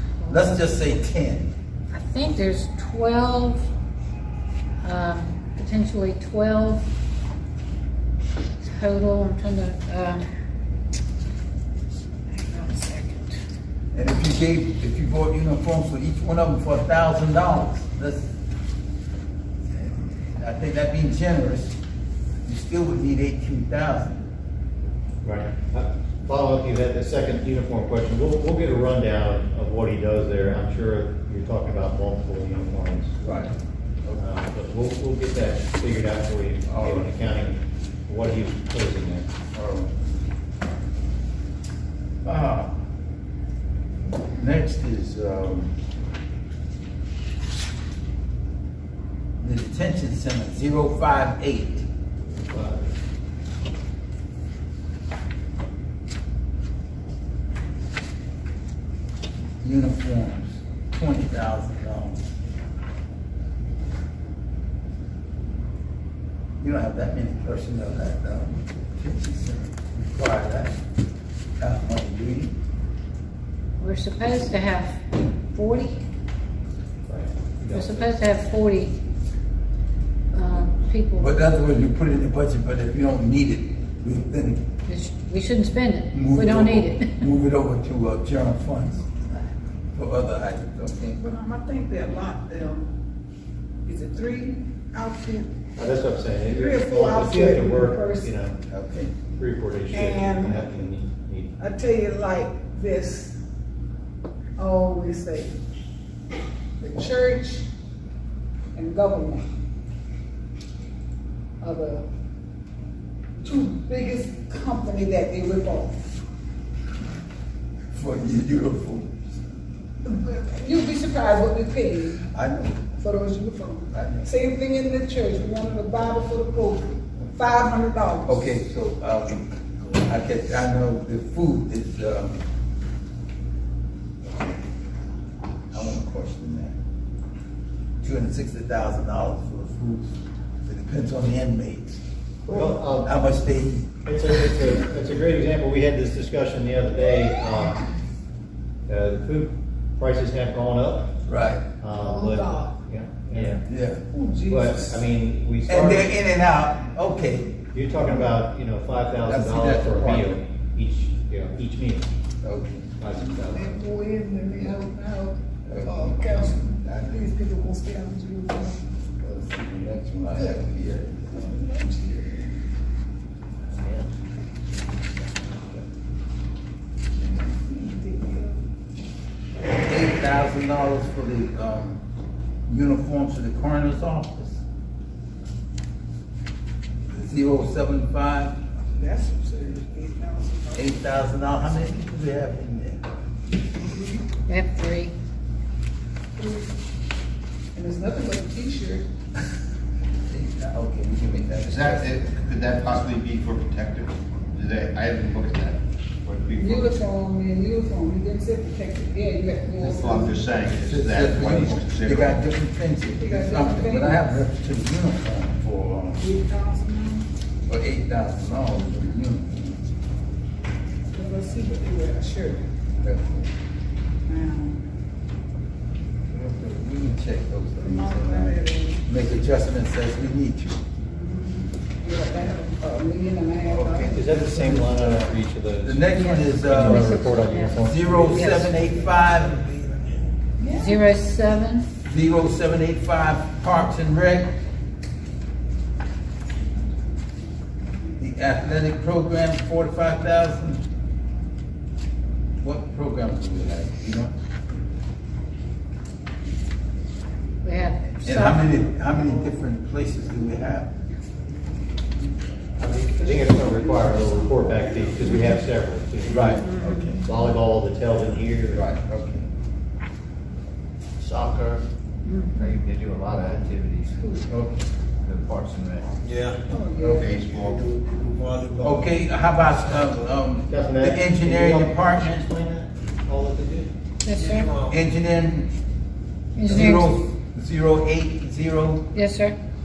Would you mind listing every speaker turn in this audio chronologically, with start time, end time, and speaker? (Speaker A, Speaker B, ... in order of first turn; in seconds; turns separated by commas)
Speaker A: 0.3-1.5, Speaker B: 1.9-3.6, Speaker B: 4.8-6.8, Speaker B: 8.6-10.2, Speaker B: 12.3-13.4, Speaker A: 13.9-18.3, Speaker A: 19.7-21.8, Speaker A: 22.4-24.2, Speaker C: 25.2-33.1, Speaker A: 33.2-33.5, Speaker C: 34.2-39.3, Speaker A: 36.7-37.1, Speaker A: 39.5-39.9, Speaker A: 42.2-42.8, Speaker A: 44.4-45.7, Speaker A: 49.4-51.9, Speaker C: 52.3-52.9, Speaker A: 59.6-62.2, Speaker A: 66.6-70.7, Speaker A: 71.6-72.5, Speaker B: 73.8-76.0, Speaker C: 77.1-78.1, Speaker B: 77.7-79.0, Speaker B: 80.3-81.3, Speaker A: 81.2-84.6, Speaker B: 84.8-87.2, Speaker A: 86.1-91.2, Speaker D: 91.2-92.9, Speaker D: 93.8-95.5, Speaker C: 95.8-98.5, Speaker D: 96.5-98.3, Speaker A: 98.7-99.1, Speaker C: 99.3-101.5, Speaker D: 99.9-100.7, Speaker D: 101.6-103.4, Speaker D: 104.6-105.6, Speaker D: 106.8-107.7, Speaker D: 108.7-109.5, Speaker D: 111.6-112.0, Speaker D: 113.4-116.2, Speaker A: 117.9-119.4, Speaker D: 120.0-122.2, Speaker A: 122.3-122.8, Speaker D: 122.9-128.4, Speaker A: 123.9-124.3, Speaker A: 128.2-132.4, Speaker A: 135.7-136.8, Speaker A: 138.0-140.1, Speaker A: 140.6-143.9, Speaker C: 142.5-143.1, Speaker C: 144.1-147.8, Speaker C: 148.9-151.1, Speaker A: 151.2-151.7, Speaker C: 151.8-153.6, Speaker D: 152.0-152.8, Speaker E: 153.3-153.6, Speaker A: 153.7-154.0, Speaker D: 154.1-155.0, Speaker C: 154.5-156.1, Speaker A: 155.7-157.6, Speaker C: 157.7-162.1, Speaker A: 159.2-160.3, Speaker A: 162.4-163.1, Speaker C: 163.0-163.8, Speaker D: 163.5-168.8, Speaker A: 165.7-166.9, Speaker A: 169.2-171.6, Speaker D: 170.3-170.6, Speaker D: 171.3-172.6, Speaker D: 177.2-178.6, Speaker A: 179.8-182.0, Speaker A: 182.7-184.6, Speaker A: 187.1-188.6, Speaker D: 188.9-191.5, Speaker A: 190.7-193.0, Speaker D: 193.8-194.2, Speaker B: 194.5-195.1, Speaker D: 196.3-196.7, Speaker D: 197.8-199.1, Speaker A: 200.3-202.2, Speaker F: 201.6-207.0, Speaker D: 206.5-210.4, Speaker F: 209.8-212.4, Speaker A: 210.8-216.2, Speaker D: 213.1-214.2, Speaker D: 216.2-217.3, Speaker A: 217.7-219.8, Speaker D: 221.1-222.6, Speaker A: 223.0-223.5, Speaker D: 224.3-224.8, Speaker A: 226.3-230.8, Speaker D: 227.8-229.0, Speaker D: 231.0-234.3, Speaker A: 233.8-235.2, Speaker C: 233.9-238.5, Speaker A: 235.8-237.2, Speaker B: 236.2-238.7, Speaker A: 237.8-239.6, Speaker E: 239.6-240.1, Speaker D: 240.6-241.0, Speaker B: 240.7-241.8, Speaker A: 242.1-244.5, Speaker A: 248.2-250.8, Speaker A: 252.6-254.3, Speaker B: 257.6-258.8, Speaker A: 258.2-260.9, Speaker C: 262.8-266.7, Speaker D: 263.2-265.6, Speaker A: 266.3-267.2, Speaker B: 266.6-267.2, Speaker C: 267.2-268.9, Speaker A: 268.7-269.5, Speaker E: 271.2-271.8, Speaker B: 272.2-272.7, Speaker E: 272.6-274.6, Speaker D: 274.2-274.4, Speaker E: 275.2-276.5, Speaker D: 276.7-277.4, Speaker F: 277.1-278.0, Speaker E: 278.1-279.1, Speaker A: 278.8-282.4, Speaker C: 280.7-283.9, Speaker B: 284.2-284.7, Speaker E: 284.4-284.9, Speaker A: 284.8-285.7, Speaker B: 286.6-287.1, Speaker A: 286.6-289.1, Speaker B: 289.1-289.6